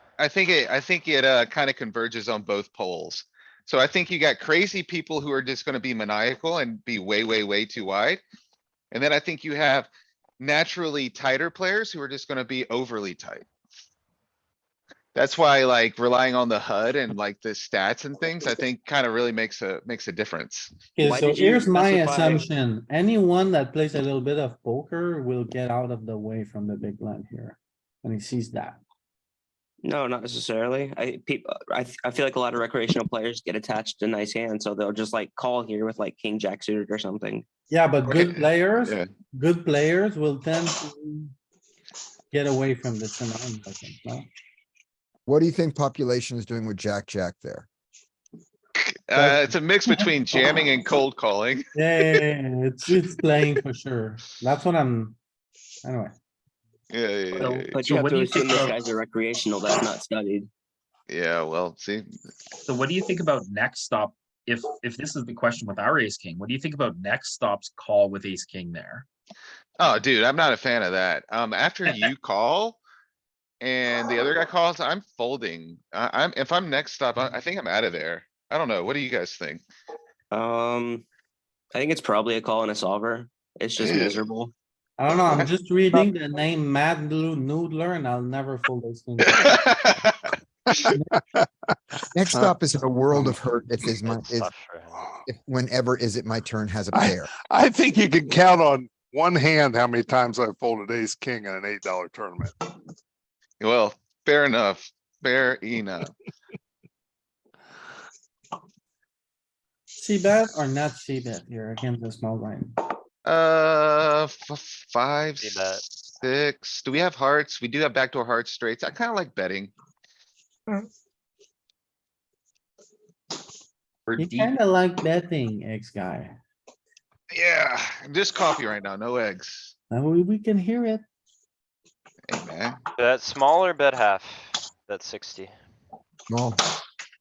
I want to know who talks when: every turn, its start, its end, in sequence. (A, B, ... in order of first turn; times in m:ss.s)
0:00.2-0:08.2 A
0:08.9-0:13.5 A
0:15.1-0:20.8 A
0:21.0-0:28.8 B
0:21.0-0:22.5 C
0:29.8-0:37.4 C
0:37.7-0:41.3 B
0:38.1-0:39.1 A
0:42.3-0:44.3 B
0:45.2-0:47.6 D
0:48.8-0:52.2 A
0:49.1-0:50.6 B
0:51.7-0:55.2 B
0:55.8-0:56.1 B
0:56.9-0:57.8 A
0:57.4-1:00.5 C
0:57.8-0:58.8 E
1:01.1-1:02.1 A
1:02.7-1:09.0 E
1:09.8-1:12.8 A
1:13.6-1:19.6 A
1:20.3-1:21.0 C
1:21.7-1:24.5 C
1:23.8-1:24.1 A
1:25.0-1:29.6 B
1:29.2-1:30.1 A
1:32.1-1:34.5 D
1:34.1-1:35.0 F
1:34.9-1:35.2 G
1:35.2-1:37.3 D
1:36.9-1:42.5 G
1:43.6-1:46.1 A
1:50.0-1:52.7 B
1:53.2-1:59.7 A
1:55.4-1:55.8 F
2:04.1-2:04.5 E
2:04.2-2:06.4 B
2:07.3-2:09.7 A
2:09.9-2:11.0 B
2:12.3-2:12.8 A
2:13.0-2:15.5 F
2:16.3-2:16.6 D